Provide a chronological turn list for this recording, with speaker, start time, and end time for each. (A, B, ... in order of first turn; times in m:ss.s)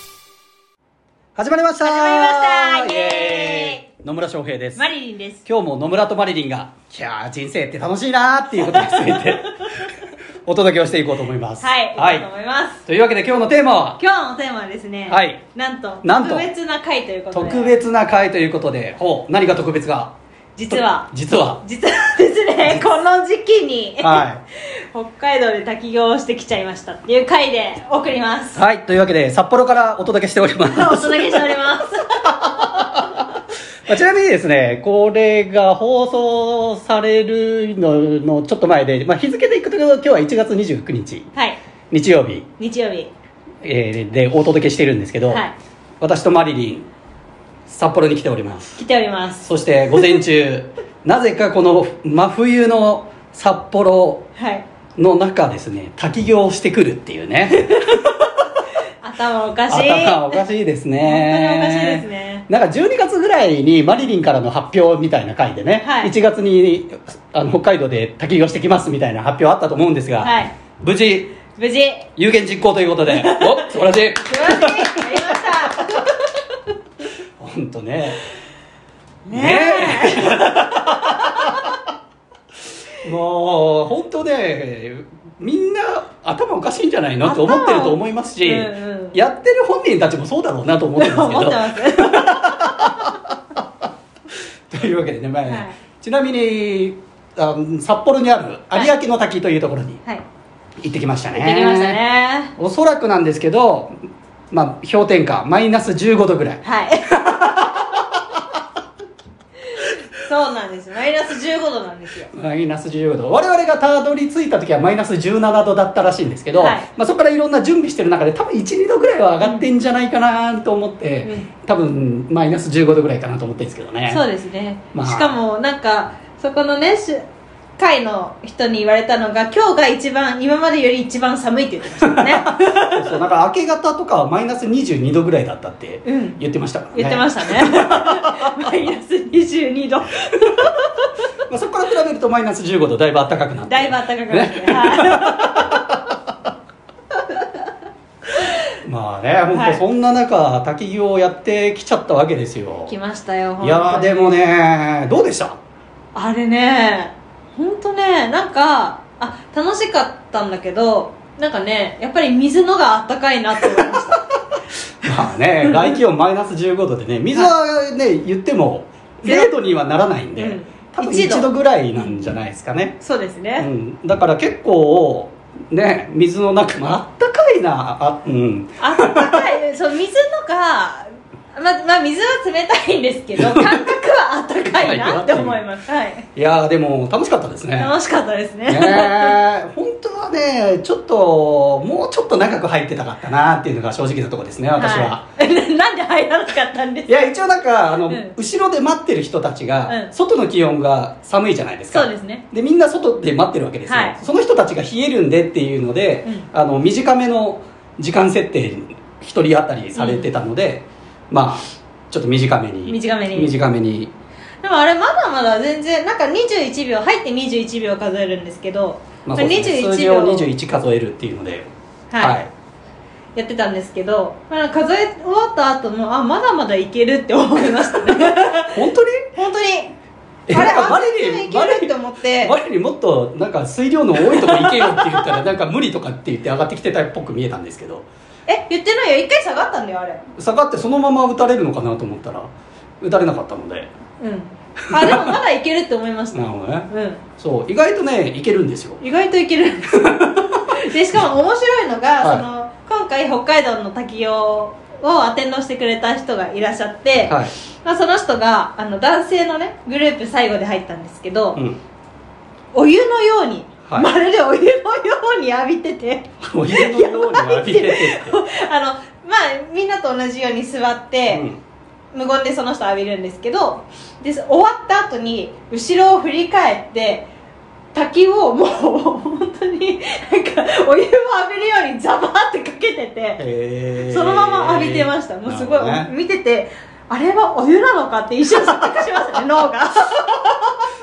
0:01.4-0:04.8 A
0:01.8-0:03.8 B
0:04.8-0:05.4 B
0:05.5-0:09.9 A
0:08.7-0:09.3 B
0:10.5-0:12.3 A
0:11.6-0:12.8 B
0:12.9-0:14.0 A
0:14.0-0:17.8 B
0:15.1-0:15.4 A
0:16.0-0:16.5 A
0:17.3-0:20.1 A
0:20.6-0:21.1 B
0:20.7-0:21.6 A
0:21.6-0:28.6 B
0:22.6-0:22.9 A
0:24.0-0:24.4 A
0:28.6-0:31.6 A
0:30.7-0:32.9 B
0:32.4-0:33.2 A
0:33.9-0:41.3 A
0:41.9-0:42.5 A
0:42.6-0:43.1 B
0:43.6-0:45.4 A
0:45.3-0:45.5 B
0:46.0-0:46.9 A
0:47.7-0:48.8 A
0:48.8-0:49.5 B
0:49.4-0:54.3 A
0:54.4-0:54.6 B
0:55.0-0:58.0 A
0:59.0-1:00.4 B
0:59.7-1:11.4 A
1:01.0-1:02.5 B
1:05.8-1:06.1 B
1:10.2-1:10.5 B
1:11.6-1:12.1 B
1:12.2-1:15.7 A
1:13.1-1:16.2 B
1:17.4-1:18.2 A
1:19.2-1:21.5 B
1:19.3-1:21.5 A
1:23.0-1:33.2 A
1:27.2-1:29.2 B
1:31.0-1:32.8 B
1:34.7-1:40.0 A
1:35.5-1:35.8 B
1:40.8-1:42.0 A
1:41.3-1:42.5 B
1:42.6-1:44.0 A
1:44.5-1:47.9 A
1:46.6-1:47.8 B
1:49.8-1:52.3 B
1:52.3-2:04.2 A
1:56.5-1:56.9 B
1:59.4-1:59.7 B
2:01.2-2:01.5 B
2:04.1-2:07.2 B
2:04.9-2:05.4 A
2:07.8-2:13.2 B
2:12.1-2:18.4 A
2:16.0-2:16.4 B
2:16.9-2:21.1 B
2:21.5-2:26.0 A
2:23.7-2:25.7 B
2:28.8-2:32.9 A
2:29.5-2:29.8 B
2:32.9-2:34.4 B
2:33.6-2:35.6 A
2:36.1-2:44.3 B
2:45.0-2:53.0 A
2:45.1-2:46.0 B
2:49.2-2:49.5 B
2:50.4-2:52.3 B
2:53.0-2:53.7 B
2:53.6-2:59.5 A
2:58.8-3:06.3 B
3:03.4-3:03.9 A
3:04.7-3:05.6 A
3:06.4-3:08.0 A
3:07.8-3:09.4 B
3:08.7-3:15.2 A
3:14.8-3:17.3 B
3:17.1-3:34.1 A
3:18.1-3:18.4 B
3:19.9-3:20.1 B
3:21.9-3:22.4 B
3:23.9-3:24.2 B
3:30.0-3:30.3 B
3:32.9-3:33.6 B
3:34.6-3:40.5 B
3:39.2-3:42.5 A
3:42.1-3:42.4 B
3:43.4-3:48.8 B
3:48.7-3:49.3 A
3:49.4-3:49.9 B
3:50.5-3:58.1 A
3:50.5-3:52.6 B
3:54.2-3:55.4 B
3:58.5-4:00.2 B
4:00.4-4:02.5 A
4:03.0-4:03.9 A
4:04.2-4:07.2 B
4:04.9-4:05.2 A
4:06.3-4:09.0 A
4:09.0-4:21.6 B
4:10.0-4:10.7 A
4:17.3-4:17.5 A
4:22.7-4:31.5 B
4:23.8-4:24.1 A
4:26.4-4:28.4 A
4:31.3-4:31.6 A
4:32.1-4:37.3 B
4:37.9-4:43.4 B
4:43.4-4:46.1 A
4:44.0-4:50.8 B